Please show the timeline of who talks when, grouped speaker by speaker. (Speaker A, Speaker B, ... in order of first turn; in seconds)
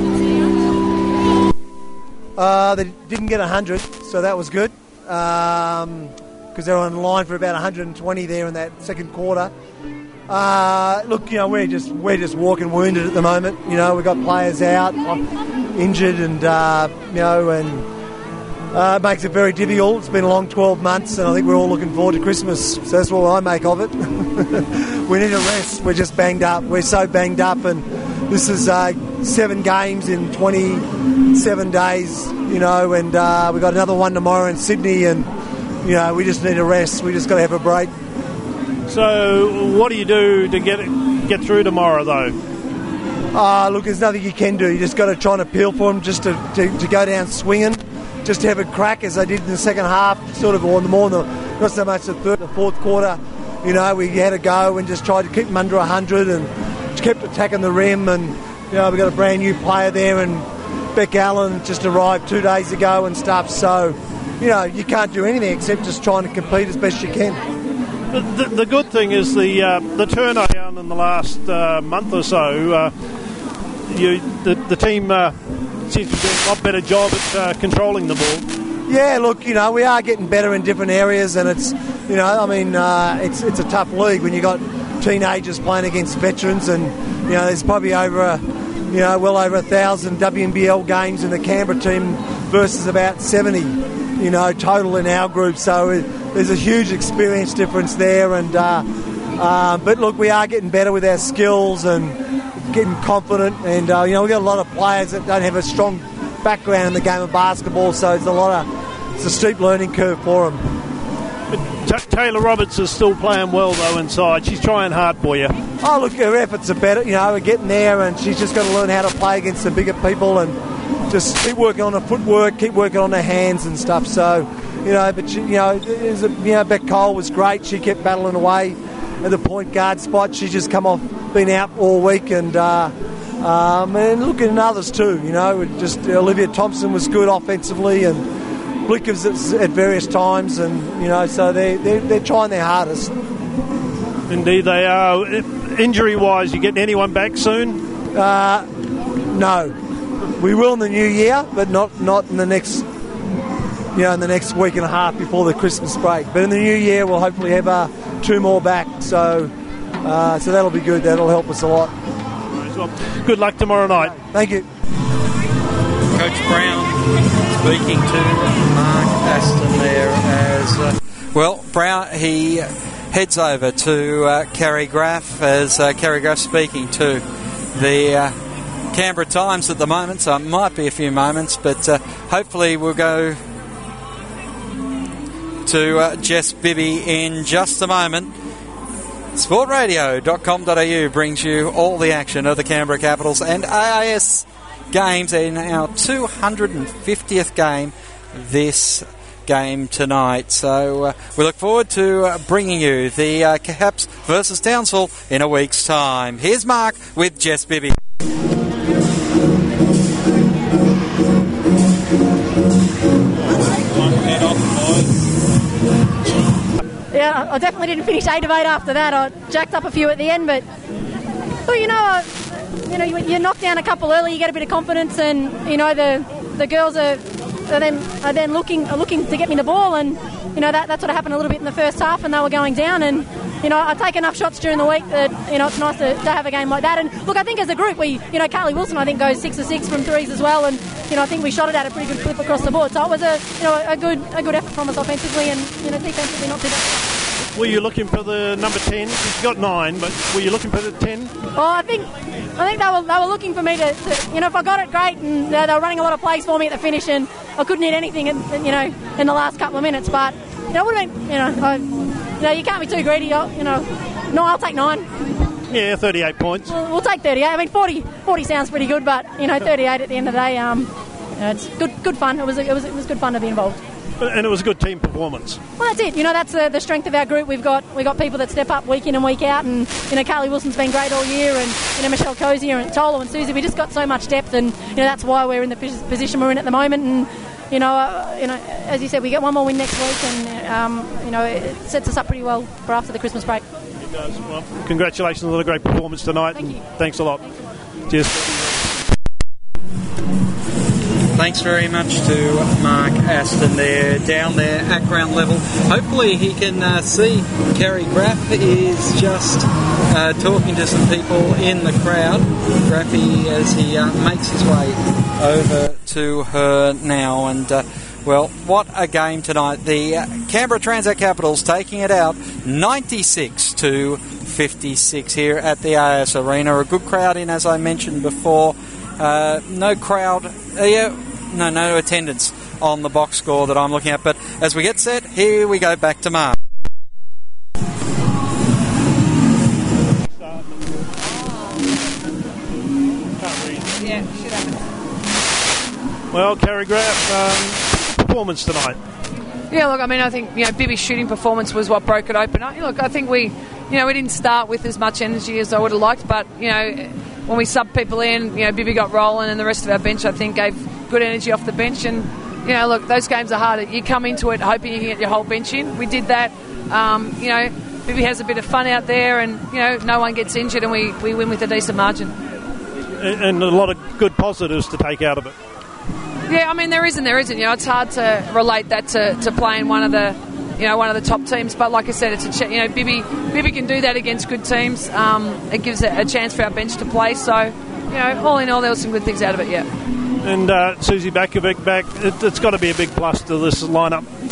Speaker A: 2.4-9.5, 10.3-15.2, 15.7-17.9, 18.7-35.3, 35.8-37.9, 43.3-67.4, 78.9-98.8, 99.4-108.7, 109.2-110.7, 115.8-120.5, 121.1-138.2, 138.8-143.1, 148.1-148.7, 149.3-149.8, 150.4-152.8, 153.9-159.5, 160.0-161.9, 164.1-164.7
Speaker B: 38.9-42.4, 68.1-72.9, 73.9-78.5, 111.5-115.6, 144.3-147.8, 162.6-164.2, 247.5-251.3, 265.7-266.7, 274.2-275.6, 294.0-297.4, 298.1-298.9, 343.4-344.0, 346.3-349.0, 373.2-375.5, 390.4-394.3
Speaker C: 166.1-178.3, 178.9-183.4, 185.6-188.3, 189.3-207.9, 214.2-214.8, 301.3-336.6
Speaker D: 217.1-220.6, 221.7-222.3, 222.8-247.0, 251.6-265.1, 266.7-273.8, 275.8-293.6
Speaker E: 344.0-344.9, 349.7-372.4, 376.5-389.9